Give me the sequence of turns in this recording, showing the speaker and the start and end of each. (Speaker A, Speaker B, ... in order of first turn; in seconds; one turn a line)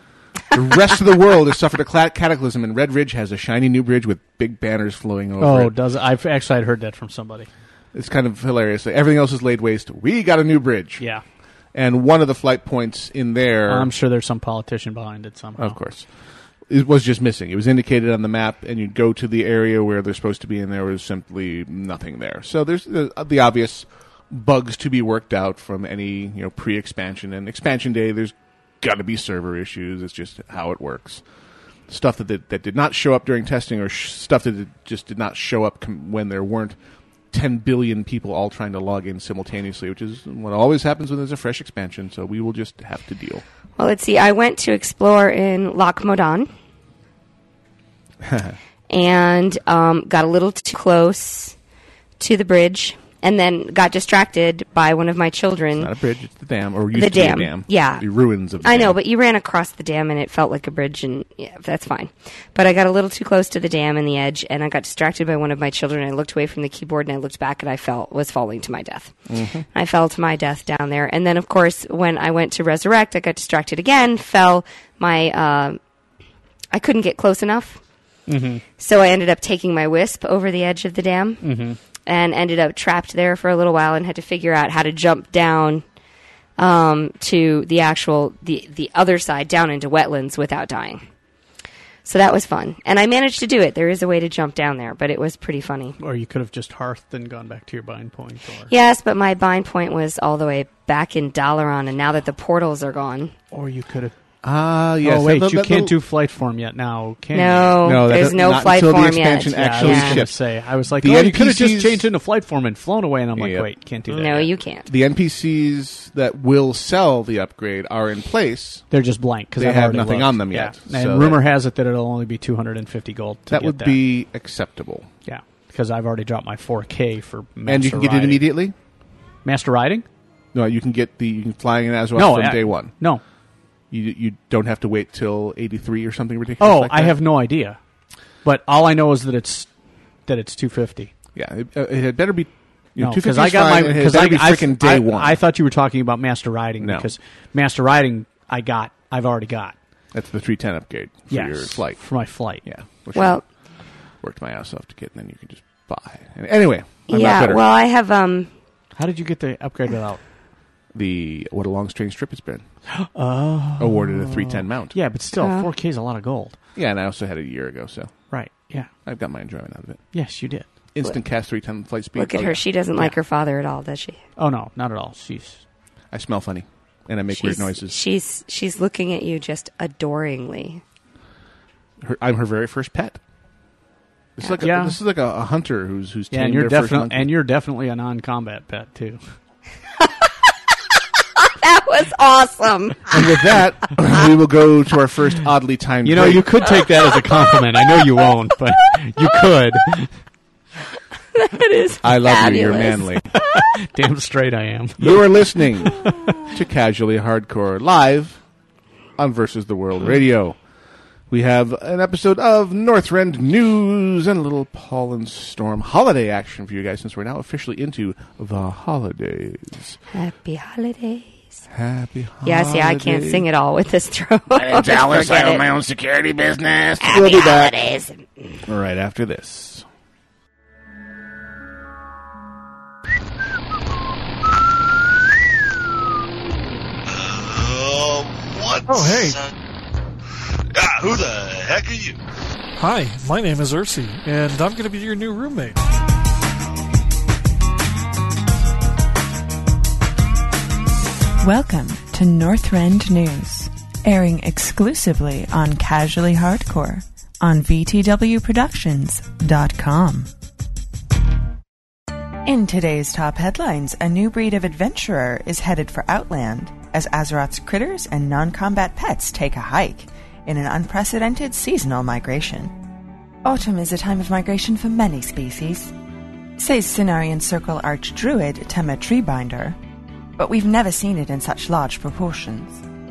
Speaker A: 0.5-5.7
Speaker B: 5.4-7.5
Speaker A: 7.9-11.0
Speaker B: 11.0-11.2
Speaker A: 11.7-13.9
Speaker B: 13.7-15.8
Speaker A: 15.6-16.1
Speaker A: 16.7-31.2
Speaker A: 31.9-36.8
Speaker A: 37.3-43.4
Speaker C: 43.8-46.5
Speaker A: 48.2-48.5
Speaker C: 48.9-51.5
Speaker C: 52.2-55.9
Speaker A: 55.8-59.0
Speaker C: 56.9-58.0
Speaker C: 58.6-69.1
Speaker A: 69.3-69.7
Speaker C: 69.7-75.8
Speaker C: 76.7-77.8
Speaker B: 78.3-78.6
Speaker C: 78.8-81.4
Speaker B: 81.4-81.8
Speaker C: 82.0-85.8
Speaker C: 86.6-91.0
Speaker C: 92.0-96.0
Speaker B: 96.0-98.7
Speaker C: 98.7-103.3
Speaker B: 103.5-104.1
Speaker A: 104.4-106.0
Speaker B: 105.0-107.9
Speaker C: 107.3-110.2
Speaker A: 107.8-110.4
Speaker B: 109.6-114.5
Speaker A: 111.0-112.0
Speaker A: 113.3-113.7
Speaker C: 114.1-114.9
Speaker A: 114.9-118.8
Speaker B: 118.9-124.0
Speaker A: 119.5-121.4
Speaker A: 123.5-125.1
Speaker B: 125.2-128.5
Speaker A: 127.7-128.7
Speaker B: 129.4-130.1
Speaker A: 130.5-132.9
Speaker B: 132.2-133.2
Speaker A: 133.9-137.2
Speaker B: 136.6-137.8
Speaker B: 138.4-139.7
Speaker B: 140.3-141.1
Speaker A: 141.3-145.4
Speaker B: 143.0-149.8
Speaker A: 146.8-147.1
Speaker A: 150.1-152.0
Speaker B: 151.3-152.6
Speaker A: 152.6-153.4
Speaker C: 153.1-153.4
Speaker A: 154.2-157.6
Speaker C: 157.1-158.5
Speaker B: 159.0-160.2
Speaker A: 160.9-162.6
Speaker B: 162.9-166.6
Speaker A: 163.8-164.9
Speaker C: 165.4-165.7
Speaker A: 166.7-168.1
Speaker B: 168.3-168.9
Speaker A: 169.0-170.0
Speaker B: 170.1-170.7
Speaker A: 170.9-172.6
Speaker C: 172.2-174.2
Speaker B: 174.4-175.6
Speaker A: 176.1-177.9
Speaker C: 177.3-180.8
Speaker A: 182.0-183.2
Speaker A: 184.4-187.3
Speaker B: 184.6-184.9
Speaker B: 186.3-189.2
Speaker C: 191.4-193.4
Speaker A: 193.1-196.5
Speaker B: 196.0-200.1
Speaker C: 201.3-203.2
Speaker A: 202.0-203.3
Speaker B: 203.3-205.3
Speaker A: 205.0-208.4
Speaker B: 205.8-206.4
Speaker A: 209.2-210.6
Speaker A: 211.3-220.0
Speaker C: 220.1-221.6
Speaker A: 221.7-223.4
Speaker C: 222.4-225.7
Speaker A: 224.5-227.8
Speaker C: 227.0-228.6
Speaker A: 228.7-229.8
Speaker D: 237.1-239.5
Speaker E: 238.9-239.4
Speaker D: 240.7-242.2
Speaker E: 242.8-245.8
Speaker F: 251.4-260.3
Speaker F: 262.4-272.7
Speaker F: 273.4-275.9
Speaker F: 276.6-279.8
Speaker F: 280.4-282.8